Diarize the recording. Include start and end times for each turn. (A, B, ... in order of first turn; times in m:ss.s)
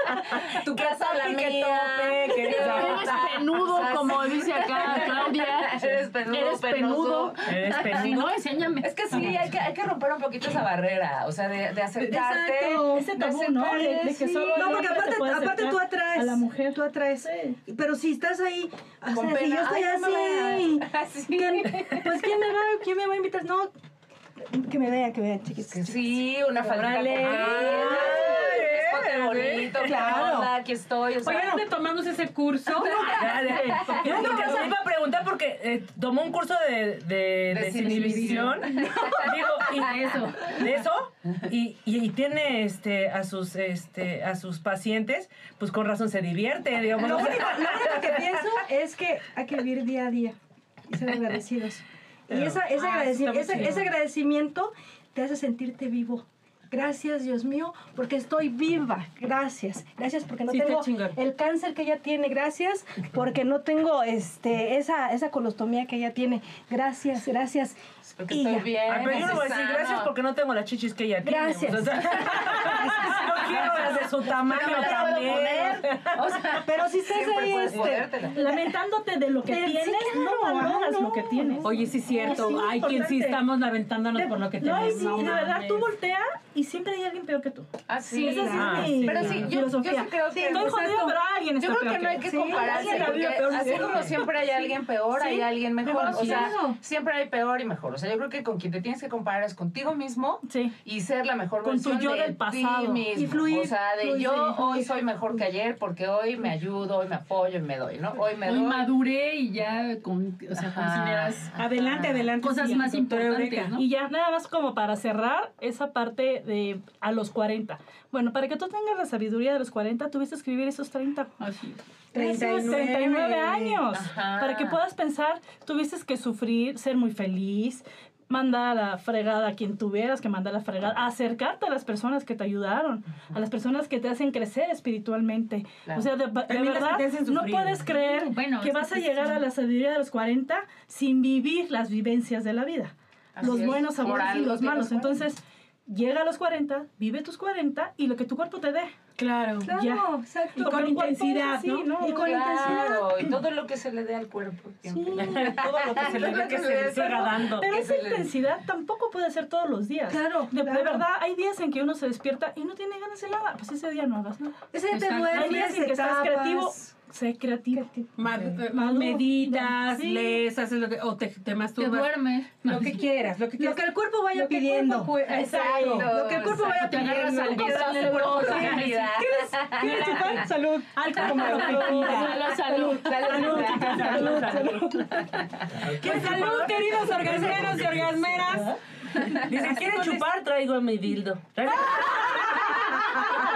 0:00.5-0:14.9 A
0:00.9-0:03.1 B
0:02.5-0:09.5 C
0:07.4-0:08.2 B
0:12.0-0:12.9 D
0:12.8-0:17.6 E
0:13.7-0:23.7 D
0:19.1-0:22.2 A
0:24.5-0:26.2 D
0:25.7-0:31.6 A
0:26.6-0:28.4 F
0:27.7-0:28.3 D
0:27.8-0:30.1 B
0:29.9-0:30.5 D
0:31.2-0:34.4 F
0:33.2-0:48.5 B
0:33.4-0:34.5 E
0:33.5-0:34.6 A
0:37.5-0:39.9 A
0:37.7-0:39.1 C
0:39.7-0:40.6 C
0:47.0-0:50.4 D
0:50.9-1:09.4 D
0:52.7-0:53.9 F
1:00.5-1:01.1 F
1:08.2-1:10.1 A
1:08.8-1:16.6 B
1:11.2-1:14.0 D
1:13.1-1:13.9 A
1:14.5-1:18.4 A
1:15.0-1:15.8 D
1:16.6-1:18.7 D
1:18.2-1:23.4 E
1:19.5-1:22.4 D
1:21.6-1:25.9 F
1:24.1-1:34.2 E
1:24.9-1:25.5 D
1:27.9-1:48.9 A
1:28.0-1:31.1 D
1:28.7-1:29.3 B
1:32.2-1:36.8 D
1:35.8-1:36.6 E
1:40.4-1:40.8 E
1:41.6-1:43.7 E
1:44.0-1:45.0 D
1:48.4-1:53.8 C
1:50.5-1:52.3 A
1:51.6-1:53.8 F
1:53.8-2:01.4 E
2:01.4-2:01.8 C
2:02.1-2:28.9 E
2:02.2-2:03.8 F
2:02.2-2:02.8 D
2:03.9-2:04.8 A
2:16.5-2:17.9 F
2:18.1-2:19.5 C
2:23.4-2:25.2 A
2:23.4-2:23.8 D
2:29.2-2:29.7 F
2:29.6-2:30.8 D
2:29.7-2:30.1 E
2:30.6-2:31.9 F
2:30.6-2:33.1 E
2:32.0-2:38.3 A
2:32.0-2:33.1 D
2:34.9-2:36.3 D
2:35.2-2:37.7 B
2:37.3-2:44.6 E
2:40.1-2:41.0 D
2:44.7-2:46.9 D
2:44.9-2:45.5 C
2:45.3-2:47.9 E
2:47.7-2:48.6 D
2:48.2-2:56.1 F
2:48.7-2:50.4 E
2:51.8-2:53.0 C
2:53.6-2:58.8 D
2:55.3-3:00.5 A
2:55.5-2:56.0 E
2:56.5-2:59.2 C
2:59.8-3:02.5 E
2:59.9-3:00.4 F
3:01.0-3:02.4 F
3:01.3-3:01.6 A
3:01.5-3:03.7 C
3:02.5-3:03.6 D
3:02.7-3:04.4 A
3:03.2-3:04.2 F
3:03.3-3:04.8 E
3:03.7-3:04.9 B
3:04.5-3:04.9 D
3:05.3-3:06.0 A
3:06.0-3:08.7 F
3:06.0-3:07.8 E
3:07.2-3:08.3 B
3:09.3-3:13.2 B
3:09.5-3:10.3 F